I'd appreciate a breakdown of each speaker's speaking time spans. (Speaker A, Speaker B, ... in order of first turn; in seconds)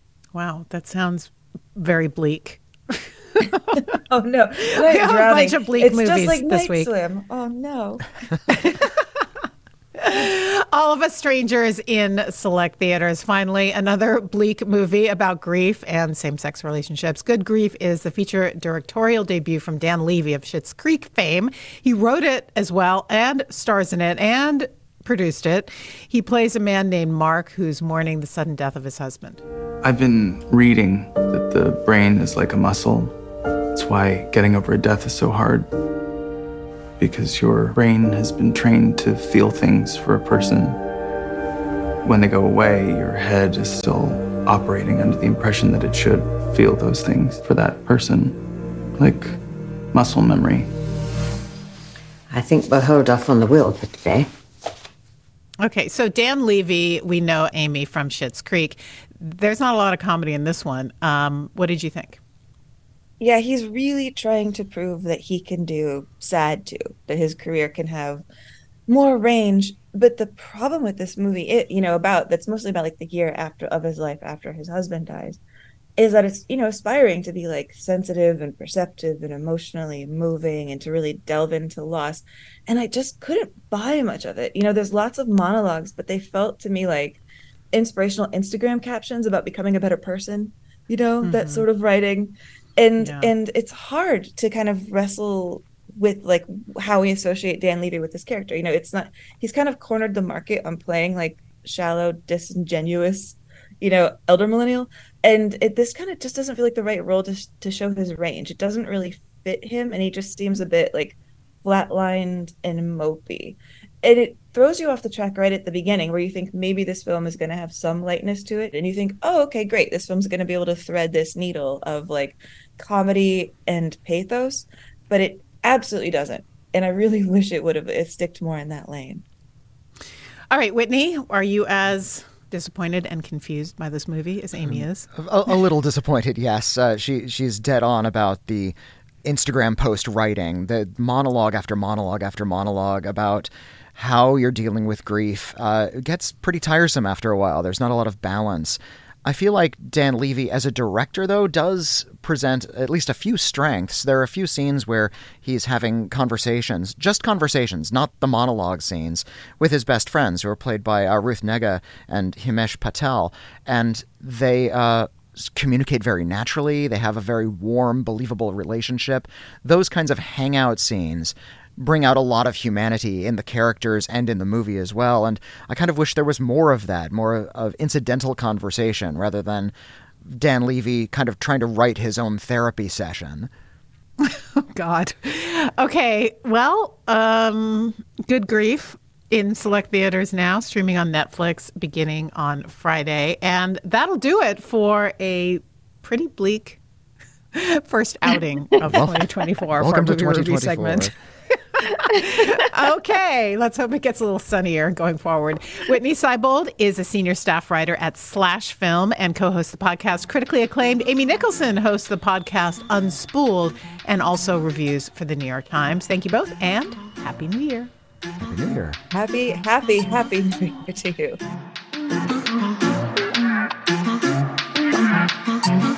Speaker A: 0.3-4.0, 4.8-6.9, 8.5-9.0, 10.0-29.4, 55.6-62.2, 91.2-91.7, 93.0-93.3, 130.5-135.1, 184.2-196.8, 197.5-201.1, 201.8-217.9
Speaker B: 3.7-8.5, 63.2-68.2, 68.9-75.4, 76.0-87.2, 87.7-129.2, 219.1-221.4
Speaker C: 29.8-33.1, 33.7-35.7, 37.0-40.8, 42.0-48.4, 49.0-49.4, 49.9-50.7
Speaker D: 52.3-54.3
Speaker E: 134.6-179.7, 180.3-183.5, 198.9-199.2, 199.8-201.1, 218.4-219.0